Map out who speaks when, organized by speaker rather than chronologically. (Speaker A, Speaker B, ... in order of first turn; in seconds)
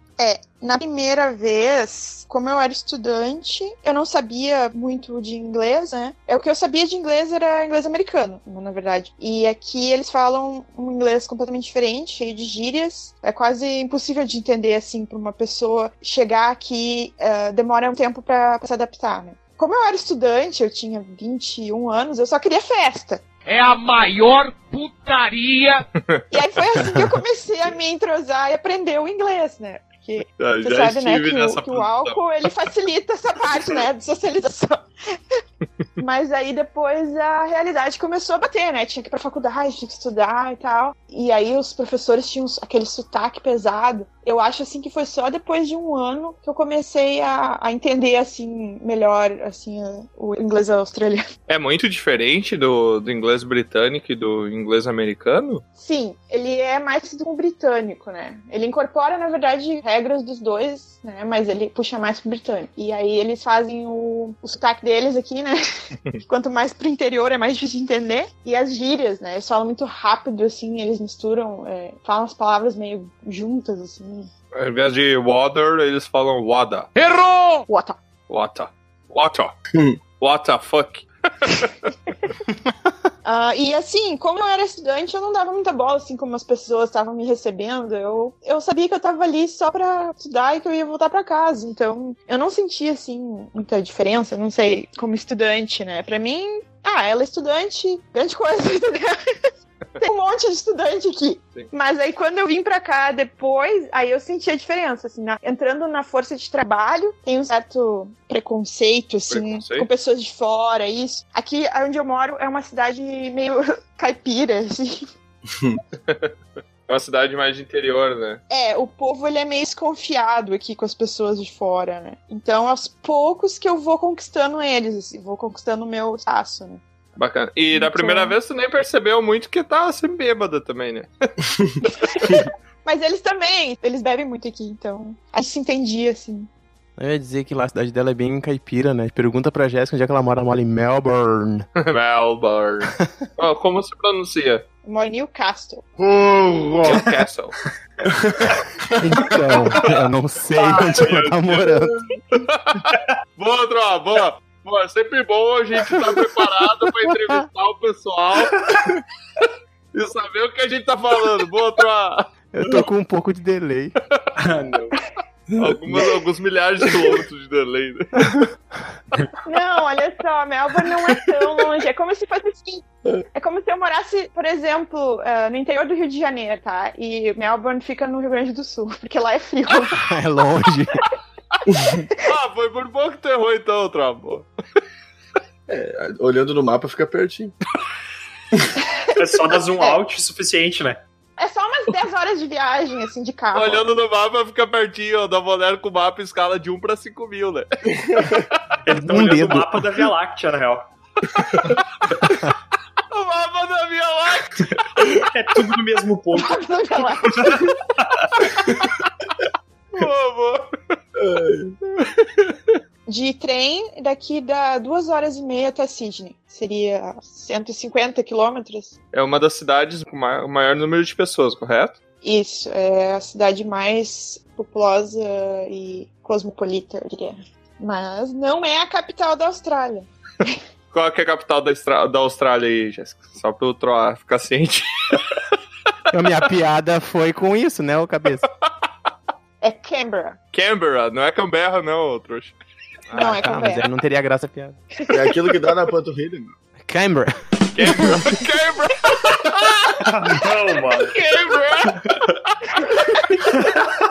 Speaker A: 0.2-23.2, 26.3-35.4, 36.0-51.2, 55.8-65.6, 66.2-74.3, 77.7-78.0, 83.2-115.1, 118.5-126.8, 127.7-128.4, 132.0-136.5, 144.8-145.8, 169.4-180.1, 188.9-190.0, 191.4-193.9, 206.3-207.7, 213.1-219.0, 222.2-230.6, 239.6-240.4, 243.1-243.9
Speaker B: 23.5-25.8, 77.0-77.6
Speaker C: 30.4-32.2, 51.5-55.6, 74.5-76.9, 78.3-79.5, 80.2-81.7, 109.3-109.9, 116.1-116.3, 116.9-118.4, 127.2-131.1, 141.8-144.6, 146.8-147.5, 152.3-158.7, 159.9-162.3, 164.0-164.3, 165.6-168.4, 182.2-184.5, 193.5-198.8, 201.6-202.2, 203.1-205.1, 209.9-210.7, 219.1-222.0, 230.9-235.4, 240.5-242.5, 243.1-243.4, 247.7-250.1, 250.9-252.7
Speaker D: 137.0-141.7, 149.0-152.0, 162.5-163.9, 179.9-181.0, 198.9-200.0, 236.1-238.4, 243.1-244.8, 246.8-248.3
Speaker E: 150.5-151.4, 164.4-165.0, 189.2-191.0, 198.8-200.9, 205.2-206.6, 207.3-208.5, 250.0-251.2
Speaker F: 165.5-166.1, 181.7-182.0, 185.7-187.5, 211.2-211.8, 245.1-246.5